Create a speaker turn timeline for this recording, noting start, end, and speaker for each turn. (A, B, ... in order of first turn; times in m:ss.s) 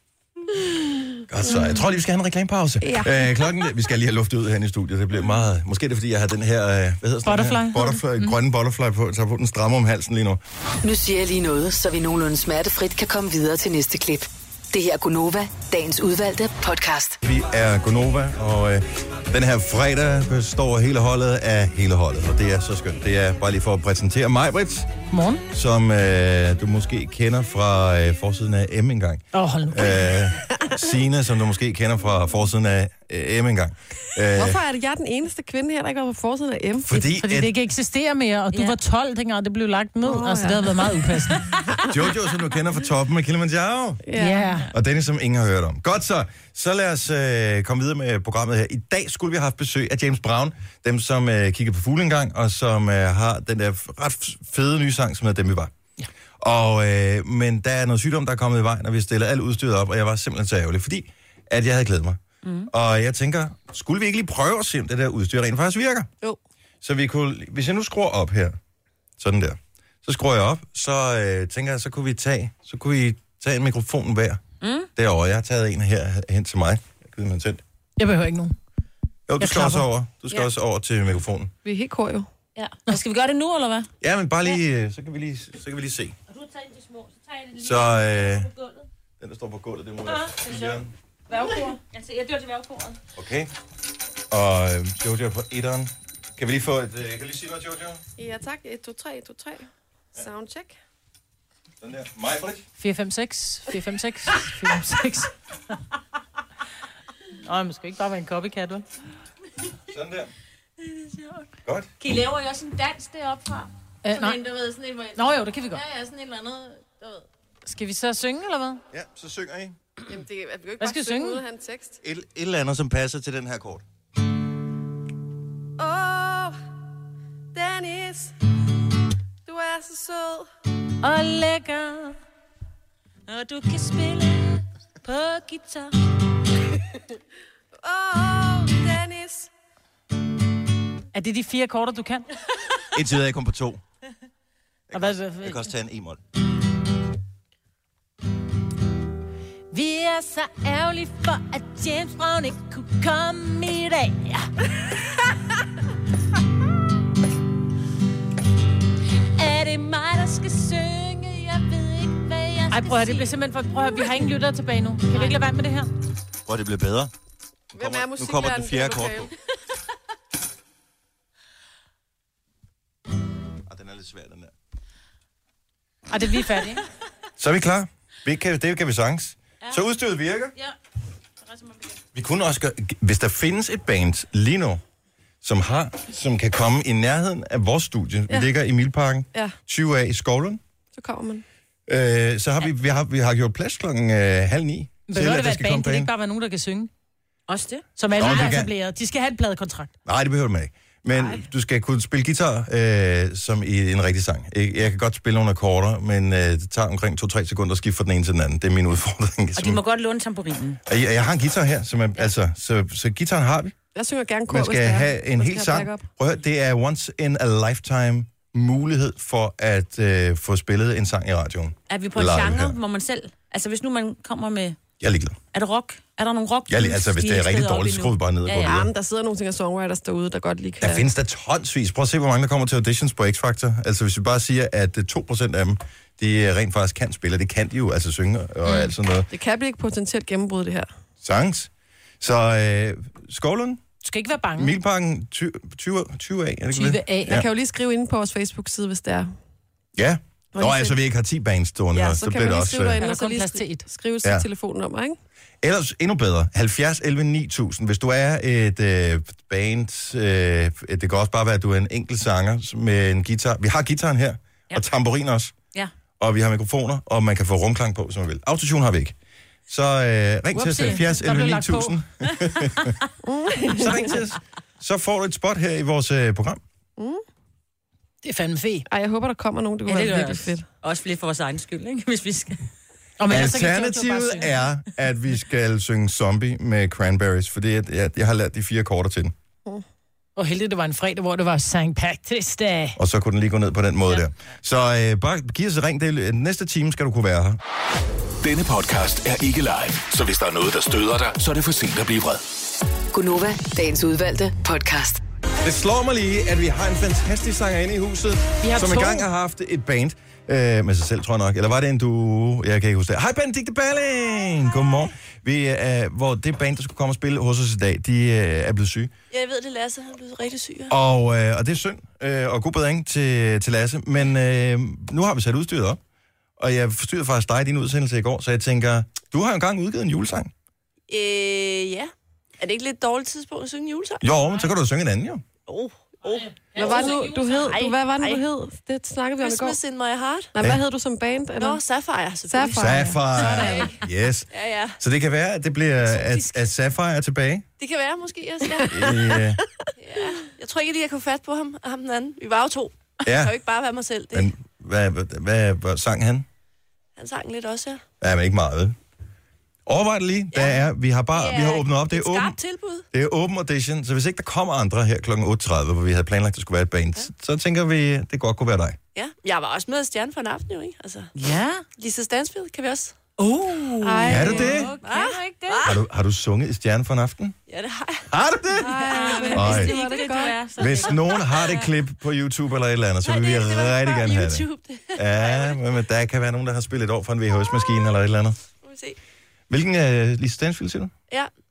0:00.7-0:01.6 A
0:01.3-0:10.4 B
0:02.8-0:03.2 A
0:07.3-0:08.4 C
0:10.8-0:17.2 D
0:17.2-0:24.9 B
0:25.1-0:25.4 C
0:25.5-0:34.6 B
0:29.3-0:30.1 C
0:34.3-0:37.1 A
0:36.9-0:37.5 B
0:37.2-0:41.5 C
0:40.0-0:40.9 A
0:41.9-0:44.0 B
0:44.1-0:44.5 A
0:44.2-0:44.7 C
0:44.7-0:55.7 B
0:56.4-1:06.1 B
1:02.4-1:02.7 E
1:06.8-1:08.6 B
1:09.2-1:14.4 B
1:14.6-1:14.9 E
1:15.0-1:17.6 B
1:18.0-1:18.6 C
1:19.3-1:21.5 B
1:19.4-1:19.9 C
1:21.6-1:22.3 A
1:22.6-1:23.9 E
1:24.0-1:26.2 B
1:26.3-1:28.8 E
1:27.6-1:28.5 B
1:29.2-1:30.9 B
1:30.1-1:30.8 E
1:31.3-1:33.0 E
1:33.2-1:33.5 B
1:34.3-1:38.0 B
1:38.2-1:40.8 A
1:41.8-1:42.6 B
1:42.8-1:45.3 C
1:47.4-1:48.8 C
1:49.9-1:50.3 B
1:50.9-1:51.3 E
1:51.6-1:52.0 B
1:52.0-1:57.2 E
1:54.0-1:54.4 C
1:55.2-1:55.8 C
1:57.6-1:58.8 C
1:58.9-1:59.8 B
2:00.1-2:02.0 A
2:00.8-2:01.4 C
2:02.0-2:03.8 B
2:05.8-2:06.6 A
2:07.5-2:08.3 A
2:09.5-2:10.5 A
2:11.0-2:12.2 C
2:13.3-2:15.9 E
2:17.8-2:19.5 A
2:21.1-2:22.3 C
2:22.9-2:23.8 B
2:24.9-2:26.2 B
2:24.9-2:25.7 C
2:29.7-2:34.5 C
2:39.4-2:43.3 E
2:42.7-2:45.9 C
2:46.5-2:47.1 B
2:47.7-2:49.3 B
2:47.7-2:49.3 A
2:53.7-2:54.5 B
2:56.1-2:56.8 C
2:57.4-3:00.5 B
3:01.4-3:02.0 E
3:02.1-3:04.8 B
3:05.4-3:10.6 B
3:11.0-3:11.4 A
3:11.9-3:16.1 B
3:15.1-3:16.9 C
3:17.5-3:17.8 E
3:18.0-3:19.9 C
3:18.2-3:18.7 B
3:20.0-3:29.8 B
3:21.2-3:21.4 E
3:29.6-3:30.8 E
3:30.9-3:33.7 B
3:34.0-3:36.0 A
3:34.5-3:42.8 B
3:41.9-3:44.8 E
3:45.0-3:45.4 B
3:45.5-3:48.7 E
3:46.7-3:48.9 B
3:48.5-3:51.1 A
3:50.8-3:59.3 B
3:58.7-3:58.9 C
3:59.3-4:00.9 A
4:01.2-4:03.8 B
4:04.0-4:04.7 C
4:04.6-4:07.5 B
4:06.7-4:07.4 C
4:07.3-4:09.4 A
4:10.0-4:13.0 B
4:10.6-4:11.0 A
4:11.9-4:15.2 A
4:13.0-4:13.8 C
4:15.6-4:25.5 B
4:26.2-4:29.2 B
4:29.7-4:32.9 B
4:30.5-4:32.0 C
4:33.2-4:34.1 A
4:33.7-4:36.6 B
4:37.0-4:37.2 A
4:38.2-4:38.9 C
4:38.9-4:40.6 A
4:39.9-4:42.6 E
4:43.2-4:44.5 C
4:43.3-4:49.3 B
4:50.4-4:53.0 C
4:53.0-4:57.6 B
4:58.4-5:02.4 F
5:03.1-5:05.2 D
5:05.6-5:19.1 B
5:08.6-5:09.3 C
5:19.3-5:20.9 G
5:20.9-5:26.0 B
5:26.6-5:30.5 B
5:31.1-5:34.3 G
5:34.2-5:35.4 B
5:35.7-5:38.4 G
5:36.8-5:39.8 A
5:39.4-5:40.5 G
5:40.5-5:41.8 A
5:41.6-5:43.9 G
5:42.5-5:43.9 A
5:42.7-5:47.7 B
5:43.4-5:43.7 C
5:44.5-5:45.0 G
5:46.1-5:46.5 C
5:47.8-5:49.3 G
5:48.8-5:49.1 A
5:48.9-5:49.6 B
5:50.0-5:54.5 G
5:53.2-5:53.5 B
5:54.3-5:56.5 B
5:57.2-5:58.0 G
5:58.2-5:59.0 B
5:59.9-6:02.6 B
6:00.5-6:03.0 G
6:03.1-6:09.0 B
6:09.2-6:11.3 G
6:11.4-6:11.8 E
6:12.0-6:13.2 G
6:13.5-6:15.8 E
6:13.6-6:14.0 C
6:14.0-6:14.8 A
6:14.2-6:16.0 G
6:14.3-6:14.9 B
6:15.8-6:17.6 B
6:17.7-6:18.3 G
6:18.3-6:18.9 B
6:18.8-6:20.6 A
6:18.9-6:21.9 E
6:19.1-6:20.2 G
6:19.5-6:20.0 B
6:20.8-6:28.6 B
6:20.8-6:21.9 G
6:23.2-6:25.9 G
6:27.7-6:28.1 G
6:28.8-6:29.2 G
6:29.7-6:31.1 B